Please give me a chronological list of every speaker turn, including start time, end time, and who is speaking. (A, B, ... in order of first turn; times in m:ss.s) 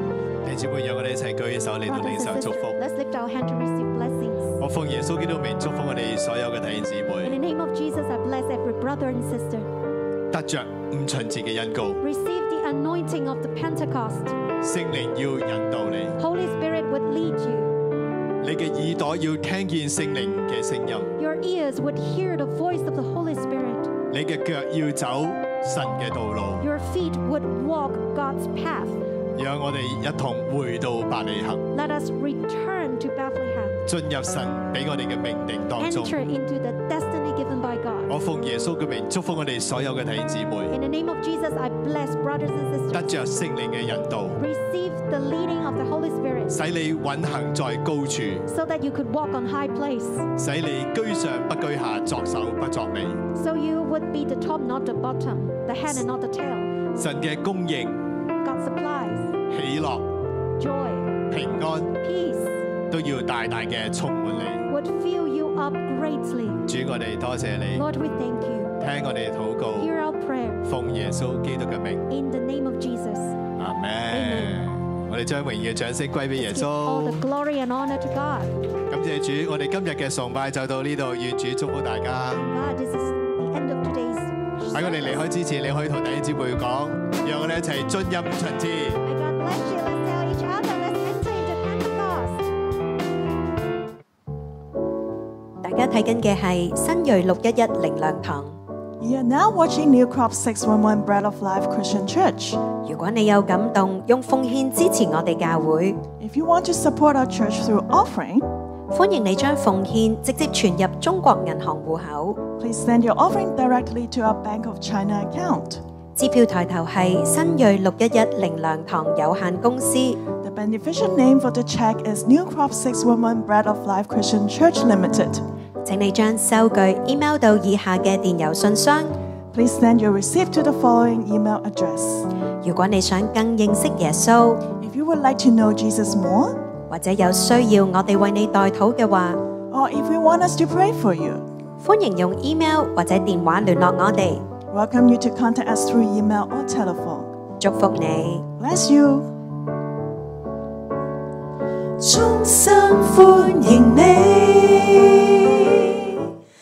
0:00.4-0:02.8 A
0:01.8-0:04.6 B
0:04.6-0:07.4 A
0:07.2-0:09.7 B
0:10.3-0:12.0 A
0:12.0-0:14.4 B
0:14.6-0:16.2 A
0:16.2-0:17.8 B
0:18.4-0:21.1 A
0:21.2-0:23.9 B
0:24.1-0:26.6 A
0:26.6-0:29.0 B
0:29.4-0:31.6 A
0:31.7-0:33.8 B
0:33.9-0:36.2 A
0:35.8-0:38.1 B
0:38.1-0:40.7 A
0:40.7-0:43.1 B
0:42.9-0:44.4 A
0:44.4-0:46.6 B
0:46.5-0:48.4 A
0:48.5-0:50.3 B
0:50.4-0:53.2 A
0:53.3-0:56.8 B
0:56.9-0:58.1 A
0:58.4-0:59.3 B
0:59.5-1:00.1 A
1:00.6-1:01.2 B
1:01.3-1:02.0 A
1:02.0-1:02.6 B
1:02.9-1:04.7 A
1:04.7-1:06.6 B
1:06.6-1:07.8 A
1:07.7-1:08.8 B
1:08.8-1:09.9 A
1:09.8-1:10.6 B
1:10.6-1:12.0 A
1:12.1-1:13.4 B
1:13.6-1:17.2 A
1:14.1-1:14.7 B
1:16.3-1:18.5 B
1:18.9-1:22.4 A
1:22.3-1:25.3 B
1:24.7-1:29.0 A
1:29.0-1:32.4 B
1:35.6-1:38.6 C
1:39.0-1:42.7 D
1:42.7-1:46.0 C
1:46.2-1:48.5 D
1:48.9-1:52.4 C
1:52.5-1:55.8 D
1:56.2-2:00.2 C
2:00.3-2:05.4 D
2:05.8-2:09.2 C
2:09.5-2:12.3 D
2:12.6-2:14.7 C
2:14.7-2:16.6 D
2:16.9-2:19.4 C
2:19.7-2:21.4 D
2:21.8-2:24.5 C
2:24.7-2:27.4 D
2:27.6-2:28.5 C
2:28.6-2:29.3 D
2:32.0-2:36.1 E